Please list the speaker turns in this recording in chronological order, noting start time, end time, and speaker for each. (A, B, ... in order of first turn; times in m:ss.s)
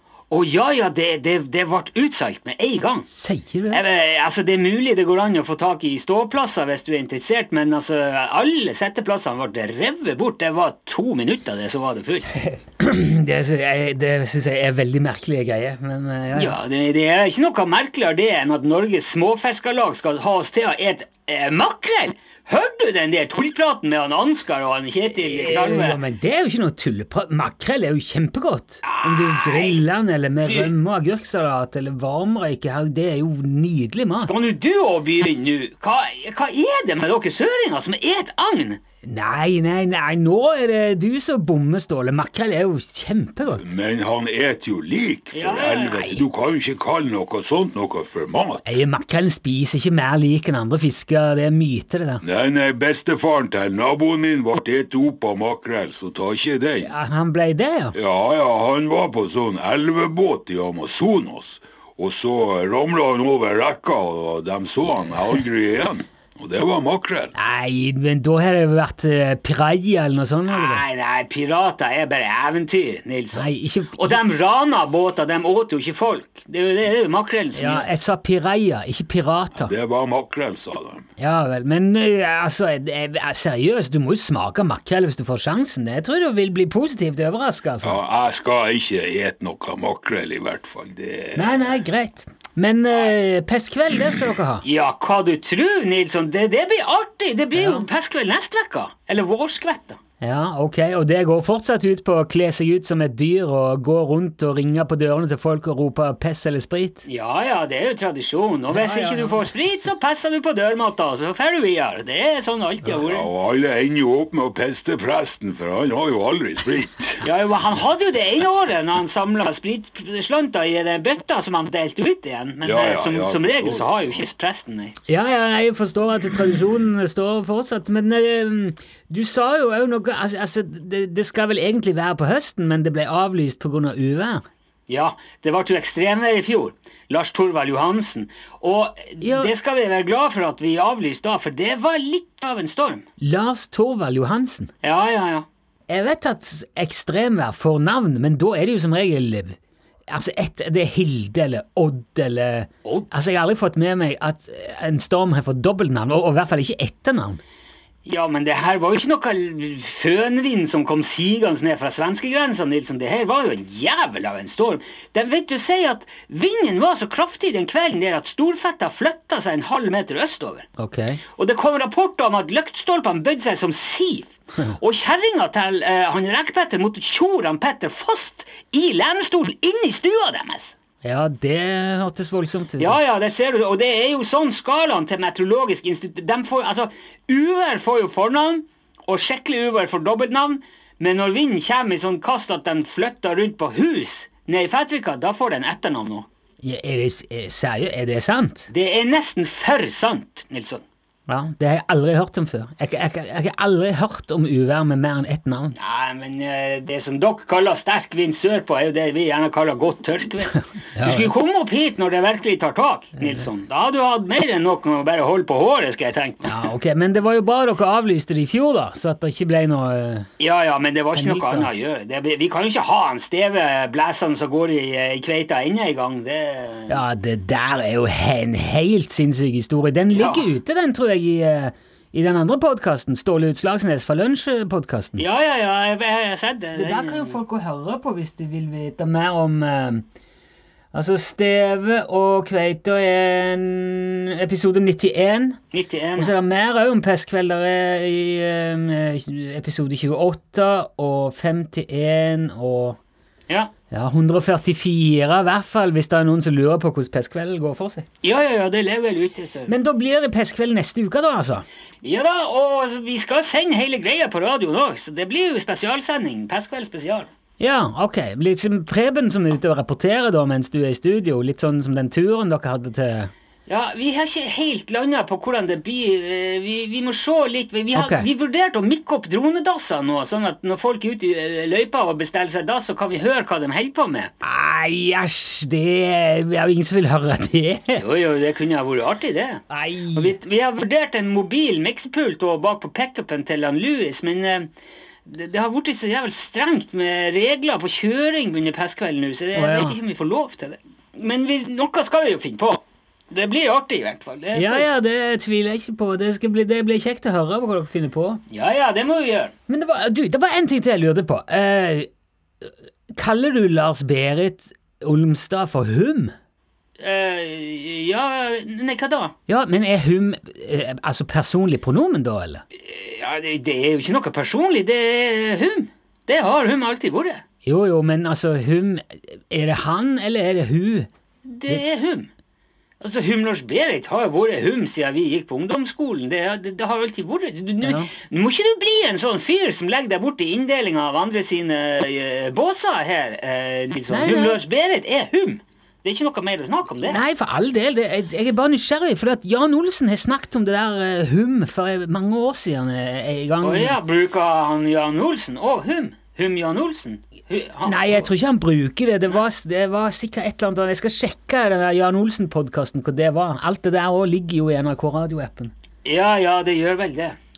0:00.3-0:03.1 A
0:03.1-0:03.8 B
0:03.7-0:12.4 A
0:12.4-0:16.6 B
0:16.4-0:26.0 A
0:25.1-0:34.3 B
0:28.8-0:29.8 A
0:30.4-0:30.7 A
0:34.2-0:38.8 A
0:39.0-0:43.7 B
0:43.5-0:48.8 C
0:45.3-0:46.0 A
0:45.9-0:46.2 B
0:48.6-0:52.2 B
0:52.2-0:56.9 C
0:56.8-0:58.0 B
0:57.9-1:07.3 C
1:07.3-1:10.8 B
1:10.5-1:17.9 A
1:13.3-1:14.2 B
1:17.5-1:19.7 B
1:19.6-1:21.0 C
1:21.2-1:28.0 B
1:27.8-1:31.7 C
1:31.3-1:34.6 B
1:34.6-1:40.0 A
1:37.5-1:37.9 B
1:40.2-1:47.0 B
1:47.0-1:53.3 A
1:48.7-1:49.5 B
1:52.9-1:57.2 C
1:57.2-2:05.0 A
2:02.6-2:04.2 C
2:05.1-2:14.4 B
2:14.9-2:23.0 A
2:19.2-2:19.5 B
2:23.2-2:24.7 B
2:24.8-2:25.4 A
2:25.9-2:29.6 B
2:30.1-2:37.4 B
2:38.0-2:50.7 A
2:50.8-2:51.2 B
2:51.3-3:00.7 A
3:01.0-3:03.0 B
3:02.8-3:16.3 A
3:16.6-3:18.7 B
3:18.7-3:20.8 A
3:21.3-3:25.7 B
3:25.8-3:36.7 A
3:30.5-3:31.3 B
3:36.4-3:40.3 B
3:40.4-3:47.0 A
3:41.1-3:41.7 B
3:46.9-3:55.2 B
3:50.1-3:50.5 A
3:55.2-3:57.4 A
3:56.7-4:00.0 B
4:00.9-4:05.6 B
4:05.7-4:06.3 A
4:06.2-4:13.0 B
4:13.9-4:18.0 B
4:18.2-4:19.7 A
4:19.7-4:21.6 B
4:22.0-4:27.3 A
4:27.6-4:33.3 B
4:33.7-4:44.3 A
4:37.9-4:38.2 B
4:44.4-4:48.0 B
4:48.0-4:49.6 A
4:49.7-4:50.4 B
4:50.1-4:54.7 A
4:55.2-5:04.9 A
4:59.5-5:00.0 B
5:04.5-5:08.4 B
5:08.5-5:09.5 A
5:09.7-5:12.1 B
5:12.6-5:16.3 B
5:17.0-5:19.3 A
5:19.5-5:22.6 B
5:22.8-5:27.4 A
5:27.6-5:31.1 B
5:31.4-5:32.3 A
5:33.0-5:47.2 A
5:37.8-5:38.1 B
5:44.1-5:44.6 B
5:47.0-5:54.0 B
5:53.6-5:58.3 A
5:57.8-6:05.7 B
6:06.0-6:07.4 A